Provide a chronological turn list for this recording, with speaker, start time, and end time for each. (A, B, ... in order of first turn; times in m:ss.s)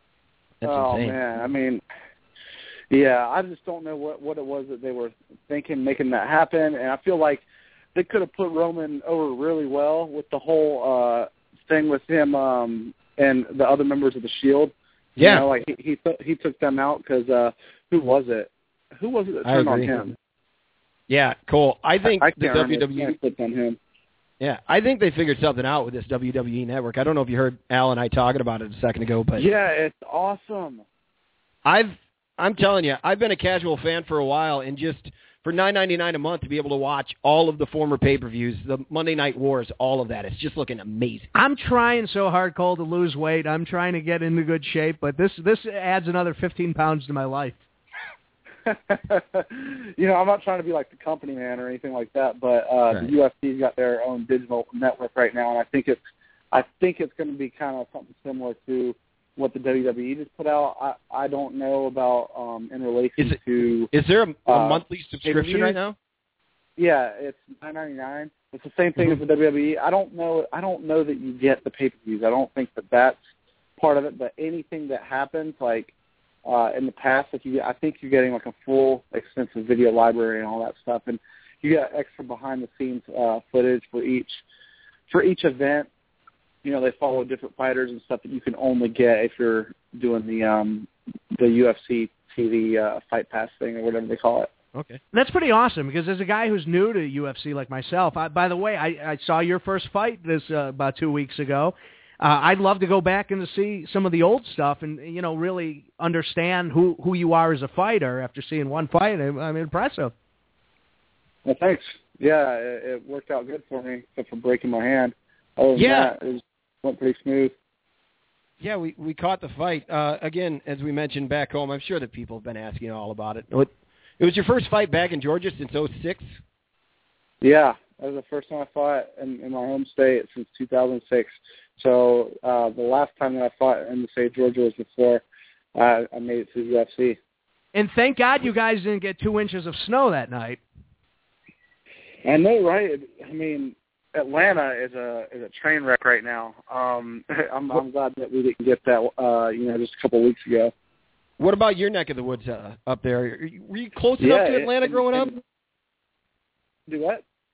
0:00.6-0:01.2 A
0:00.6-0:01.8 B
0:02.9-0:07.4 B
0:08.0-0:20.2 B
0:15.2-0:15.5 A
0:19.4-0:19.9 A
0:21.1-0:23.2 A
0:22.0-0:23.8 B
0:24.4-0:29.5 A
0:29.4-0:30.8 B
0:31.6-0:41.3 A
0:41.4-0:47.6 C
0:48.6-0:56.0 B
0:56.5-1:03.9 B
1:03.9-1:06.0 A
1:04.5-1:05.8 B
1:06.8-1:13.2 B
1:13.8-1:15.9 B
1:16.4-1:24.3 B
1:25.1-1:25.9 B
1:26.6-1:34.5 B
1:34.7-1:35.0 A
1:35.1-1:50.1 C
1:51.4-1:57.5 B
1:55.8-1:56.1 A
1:58.6-2:06.3 A
2:07.4-2:15.2 B
2:15.8-2:17.2 B
2:17.7-2:20.6 C
2:22.2-2:30.7 B
2:31.4-2:35.3 A
2:34.2-2:35.4 B
2:36.9-2:37.2 B